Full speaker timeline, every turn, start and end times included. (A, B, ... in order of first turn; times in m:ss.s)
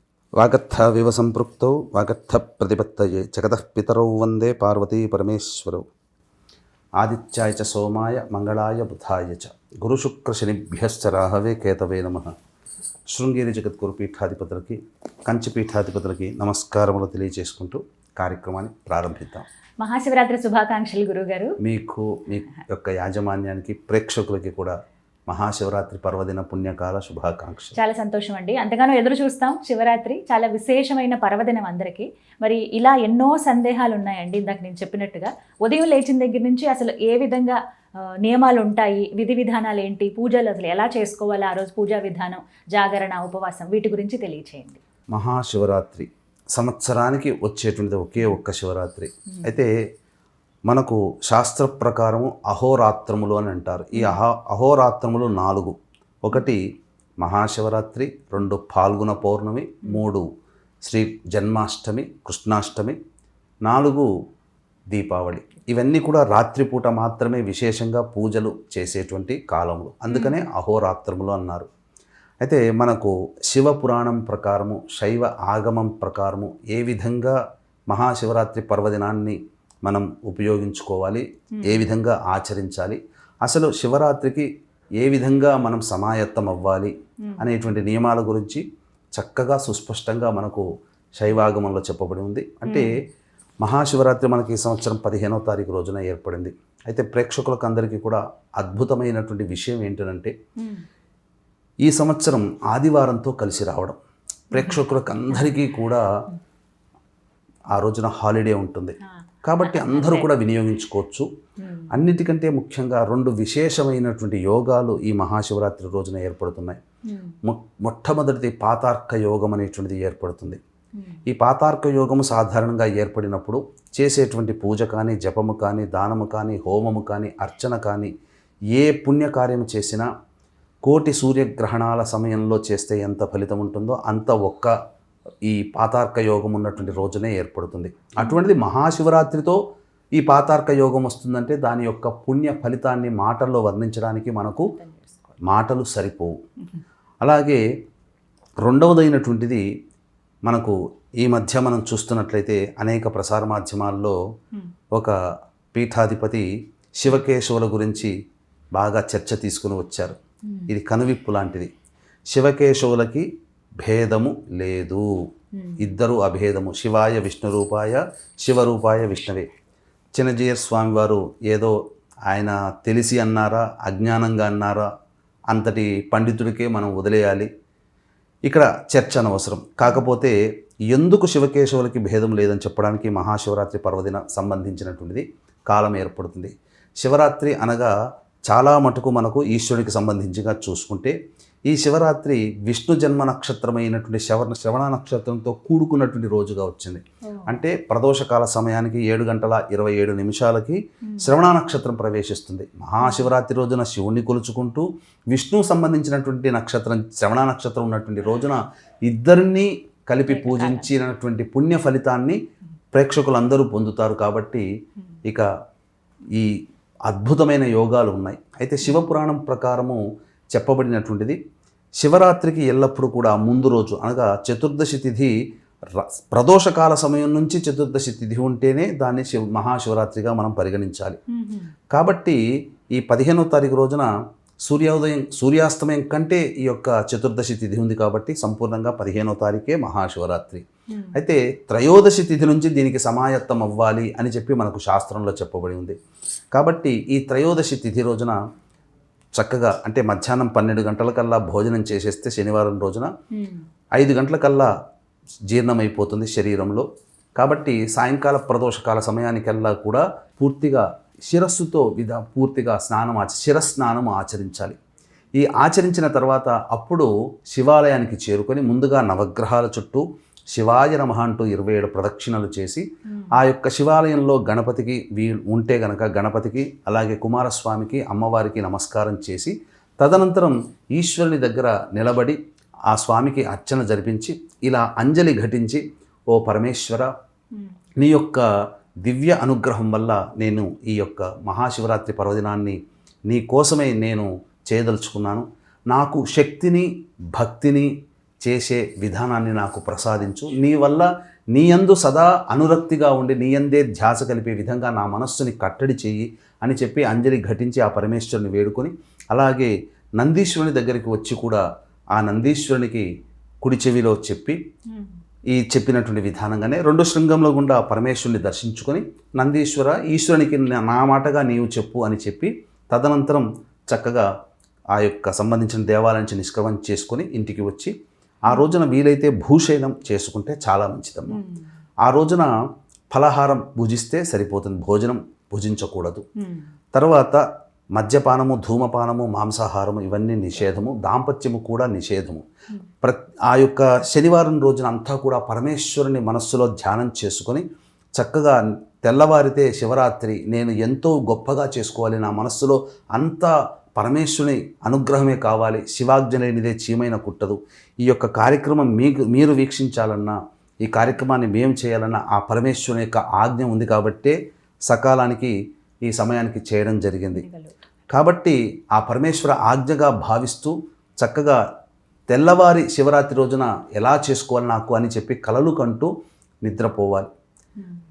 0:00.4-0:05.9 A
0:07.0-0:12.3 A
0:13.1-0:19.5 A
0:19.8-0:21.6 B
0:21.6-0:24.8 A
0:25.3-0:27.8 A
0:27.8-0:44.8 B
0:45.1-0:49.7 A
0:50.7-0:56.6 A
0:57.2-1:00.3 A
1:00.8-1:03.0 A
1:03.7-1:04.1 A
1:04.9-1:11.7 A
1:10.1-1:10.4 B
1:12.4-1:17.4 A
1:17.9-1:24.5 A
1:21.5-1:21.9 B
1:25.0-1:28.6 A
1:29.2-1:30.7 A
1:31.2-1:33.0 A
1:32.7-1:33.0 B
1:33.6-1:40.3 A
1:40.6-1:40.8 B
1:41.8-1:44.0 A
1:44.5-1:46.0 A
1:47.7-1:51.3 A
1:49.6-1:50.3 B
1:51.6-1:51.9 B
1:51.9-1:56.8 A
1:57.0-1:57.4 B
1:57.4-2:00.6 A
2:01.0-2:01.2 B
2:01.3-2:08.1 A
2:08.7-2:10.1 A
2:10.8-2:14.7 A
2:15.5-2:19.6 A
2:20.2-2:24.7 A
2:24.8-2:25.3 B
2:25.4-2:26.3 A
2:27.2-2:27.6 A
2:28.6-2:29.6 A
2:30.5-2:34.2 A
2:35.7-2:36.5 A
2:37.0-2:38.1 A
2:38.8-2:40.2 A
2:40.7-2:41.7 A
2:42.3-2:43.3 A
2:43.8-2:45.1 A
2:45.5-2:45.9 B
2:45.8-2:49.5 A
2:50.2-2:51.7 A
2:52.3-2:54.9 A
2:55.5-2:57.5 A
2:58.5-3:00.4 A
3:00.9-3:07.9 A
3:08.5-3:11.2 A
3:11.7-3:32.4 A
3:17.3-3:17.6 B
3:21.1-3:21.3 B
3:23.0-3:23.3 B
3:30.3-3:30.9 B
3:32.9-3:34.7 A
3:37.1-3:40.0 A
3:38.8-3:39.1 B
3:40.5-3:41.4 A
3:42.0-3:45.3 A
3:45.9-3:51.2 A
3:51.3-3:51.7 B
3:51.9-3:52.4 A
3:52.9-3:54.1 A
3:54.7-4:06.0 A
4:00.9-4:01.2 B
4:06.5-4:08.3 A
4:09.4-4:13.1 A
4:13.3-4:13.7 B
4:14.0-4:14.7 A
4:15.5-4:16.9 A
4:17.4-4:24.8 A
4:25.4-4:32.8 A
4:33.4-4:42.4 A
4:42.9-4:47.1 A
4:48.0-4:48.5 A
4:49.0-4:52.8 A
4:53.3-4:57.9 A
4:58.4-5:11.6 A
5:12.2-5:13.1 A
5:13.6-5:14.6 A
5:15.5-5:24.3 A
5:25.0-5:27.9 A
5:28.5-5:31.4 A
5:31.3-5:31.7 B
5:32.0-5:32.5 A
5:33.1-5:36.2 A
5:36.4-5:36.7 B
5:36.9-5:37.4 A
5:38.0-5:42.4 A
5:43.0-5:47.6 A
5:48.2-6:04.4 A
6:04.9-6:05.5 A
6:06.1-6:07.4 A
6:07.4-6:07.8 B
6:08.1-6:11.6 A
6:12.3-6:16.1 A
6:16.6-6:17.3 A